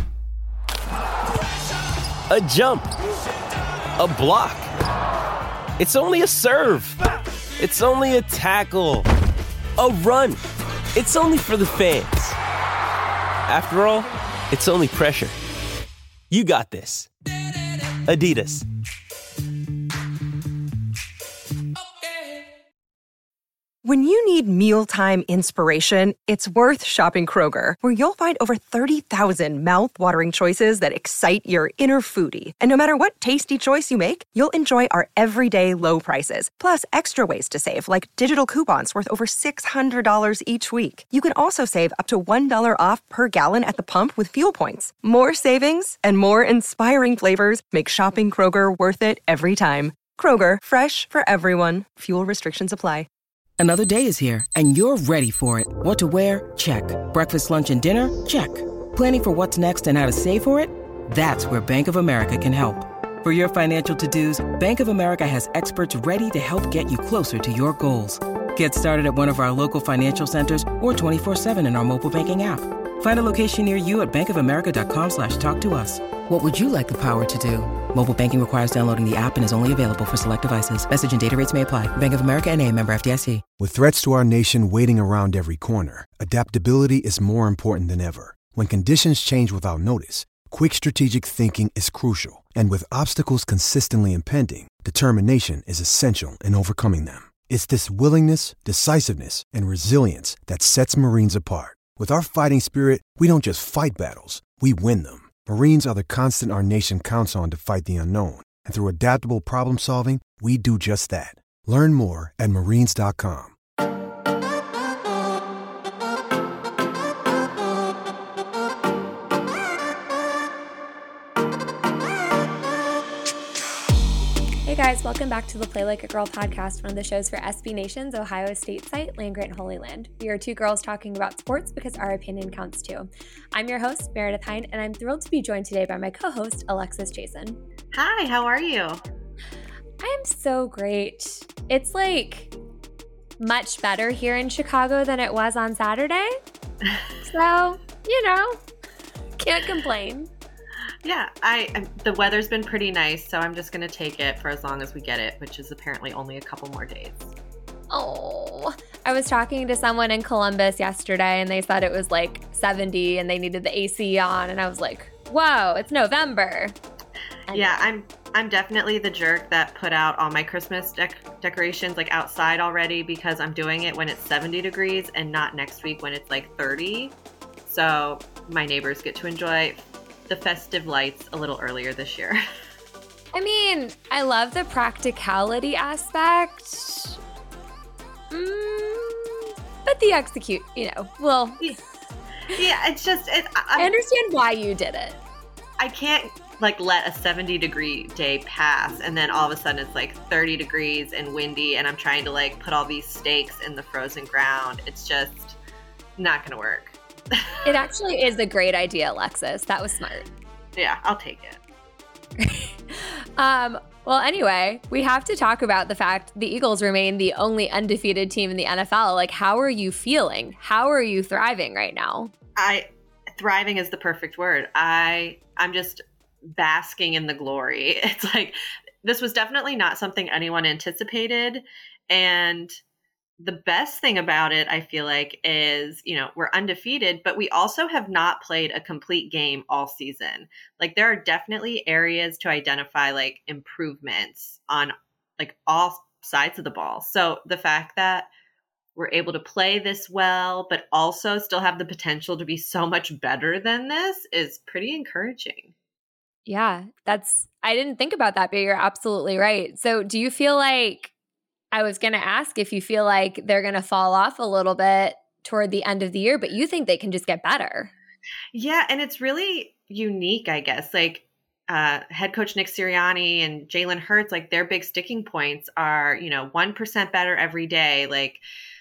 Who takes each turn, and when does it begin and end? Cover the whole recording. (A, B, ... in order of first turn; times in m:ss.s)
0:02.3-0:02.9 A
0:04.0-0:04.7 A
0:05.8-0:07.0 A
0:07.6-0:09.1 A
0:09.8-0:10.4 A
0:11.0-0:12.4 A
0:13.5-0:15.4 A
0:16.3-0:17.1 A
0:18.0-0:18.6 A
0:23.8-0:53.1 B
0:53.6-1:23.4 C
1:23.6-1:53.6 D
2:04.6-2:17.6 E
2:17.9-2:19.0 F
2:20.0-2:22.5 E
2:23.4-2:26.4 E
2:27.2-2:28.6 E
2:29.4-2:30.3 E
2:31.0-2:37.3 F
2:37.9-2:46.8 E
2:47.5-2:47.8 E
2:47.5-2:57.1 F
2:57.7-3:02.4 F
3:03.3-3:07.2 E
3:08.3-3:11.8 E
3:12.5-3:13.9 F
3:13.8-3:15.2 E
3:15.8-3:25.6 F
3:26.2-3:27.7 F
3:27.6-3:30.3 E
3:30.8-3:31.6 F
3:32.4-3:42.3 E
3:42.6-3:52.8 F
3:53.4-4:08.3 F
4:09.0-4:15.7 F
4:16.5-4:21.1 E
4:21.7-4:27.9 E
4:28.5-4:38.4 F